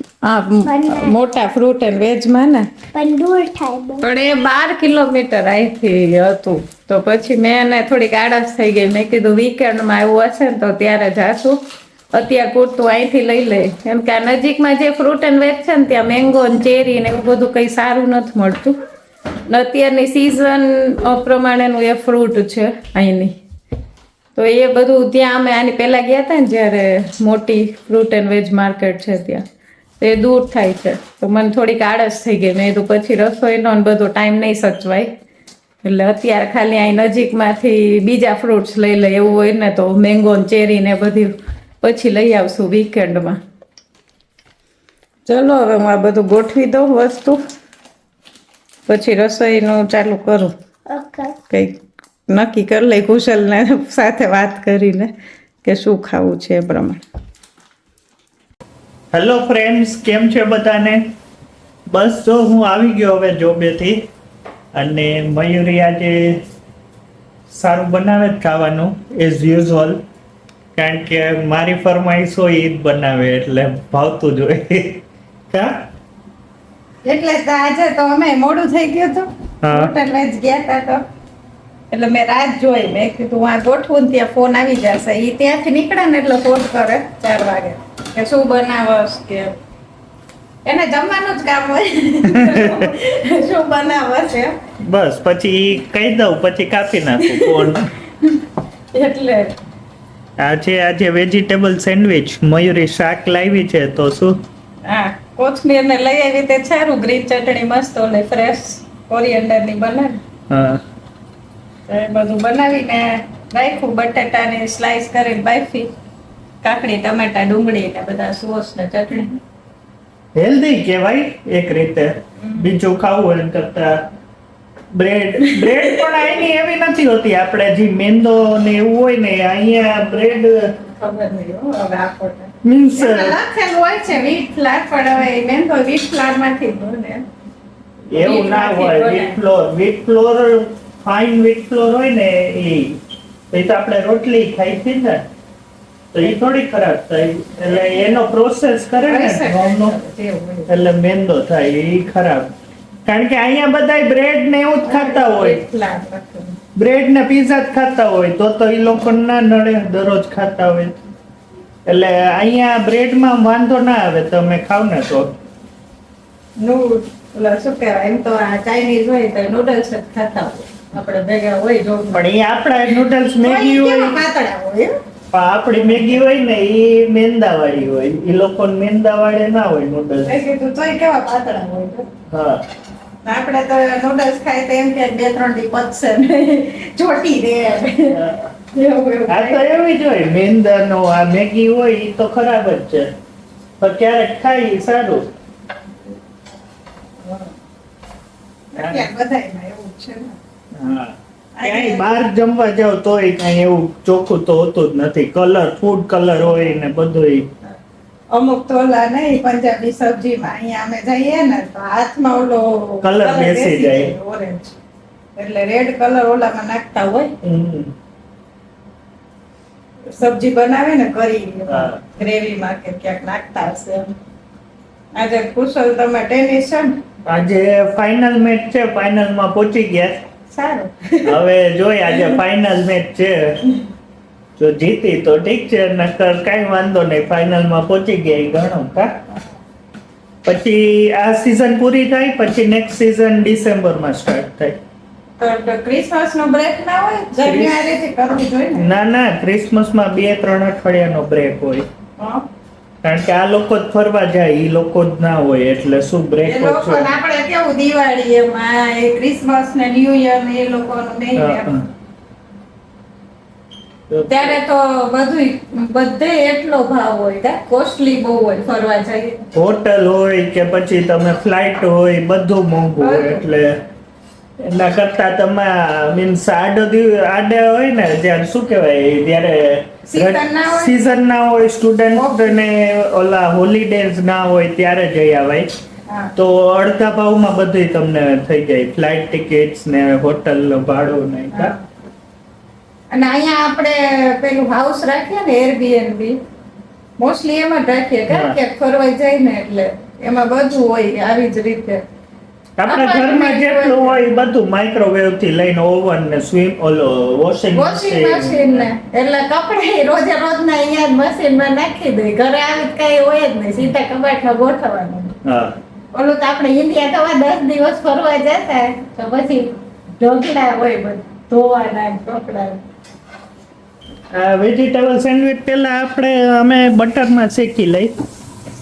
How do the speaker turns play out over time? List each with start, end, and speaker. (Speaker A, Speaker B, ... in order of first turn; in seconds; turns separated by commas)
Speaker A: 0.2-2.7, Speaker B: 0.6-1.5, Speaker B: 2.9-4.0, Speaker A: 4.0-11.6, Speaker A: 12.1-18.8, Speaker A: 19.5-23.3, Speaker A: 24.3-29.4, Speaker A: 30.0-35.1, Speaker A: 35.8-43.4, Speaker A: 45.2-47.4, Speaker A: 48.9-50.5, Speaker B: 50.9-51.4, Speaker A: 51.5-51.7, Speaker A: 52.3-55.1, Speaker A: 55.6-57.0, Speaker C: 59.1-61.0, Speaker C: 61.9-64.0, Speaker C: 64.7-66.4, Speaker C: 67.5-70.0, Speaker C: 70.7-75.8, Speaker A: 77.0-81.0, Speaker C: 79.6-79.9, Speaker A: 81.9-89.5, Speaker A: 90.6-94.6, Speaker C: 92.3-92.8, Speaker C: 94.8-97.9, Speaker A: 97.2-98.4, Speaker A: 98.9-99.6, Speaker C: 100.4-104.4, Speaker A: 104.8-110.2, Speaker C: 110.5-110.8, Speaker A: 111.9-115.9, Speaker A: 116.6-119.4, Speaker C: 120.3-124.0, Speaker A: 122.4-122.7, Speaker C: 124.9-130.6, Speaker A: 125.5-126.0, Speaker A: 130.8-137.2, Speaker C: 132.6-133.4, Speaker C: 138.1-143.0, Speaker A: 138.2-139.4, Speaker C: 143.5-145.2, Speaker C: 146.1-149.9, Speaker A: 149.0-150.8, Speaker C: 150.7-152.5, Speaker C: 153.1-155.6, Speaker A: 154.8-156.6, Speaker C: 156.8-161.0, Speaker C: 161.8-165.3, Speaker A: 166.6-172.3, Speaker C: 172.1-174.2, Speaker A: 173.4-174.9, Speaker C: 175.3-180.4, Speaker A: 175.7-176.2, Speaker A: 180.2-182.1, Speaker C: 182.3-182.6, Speaker A: 183.2-189.6, Speaker C: 188.1-188.4, Speaker C: 189.3-193.1, Speaker C: 193.8-195.3, Speaker A: 197.2-197.5, Speaker A: 198.7-200.4, Speaker C: 198.8-199.1, Speaker C: 200.7-207.5, Speaker A: 201.5-202.2, Speaker A: 208.3-214.8, Speaker C: 213.0-214.1, Speaker A: 215.3-217.3, Speaker C: 217.4-217.9, Speaker A: 220.1-224.1, Speaker C: 221.7-222.0, Speaker A: 225.1-227.0, Speaker C: 227.2-230.2, Speaker A: 230.5-231.4, Speaker C: 231.2-233.6, Speaker C: 234.6-239.1, Speaker C: 240.4-244.8, Speaker A: 245.4-248.9, Speaker C: 247.4-247.8, Speaker C: 248.8-251.9, Speaker A: 252.2-252.4, Speaker C: 253.0-257.1, Speaker A: 256.4-261.7, Speaker C: 261.4-261.8, Speaker C: 264.1-264.6, Speaker A: 264.3-269.4, Speaker C: 269.5-273.8, Speaker A: 273.0-273.4, Speaker C: 274.6-285.7, Speaker A: 280.1-280.9, Speaker A: 282.1-282.6, Speaker C: 286.4-291.7, Speaker A: 291.5-291.8, Speaker A: 293.1-296.4, Speaker A: 297.2-302.0, Speaker C: 298.3-298.6, Speaker C: 302.8-308.9, Speaker A: 302.9-304.3, Speaker A: 307.7-315.3, Speaker C: 315.4-315.8, Speaker A: 316.1-322.8, Speaker C: 324.3-328.1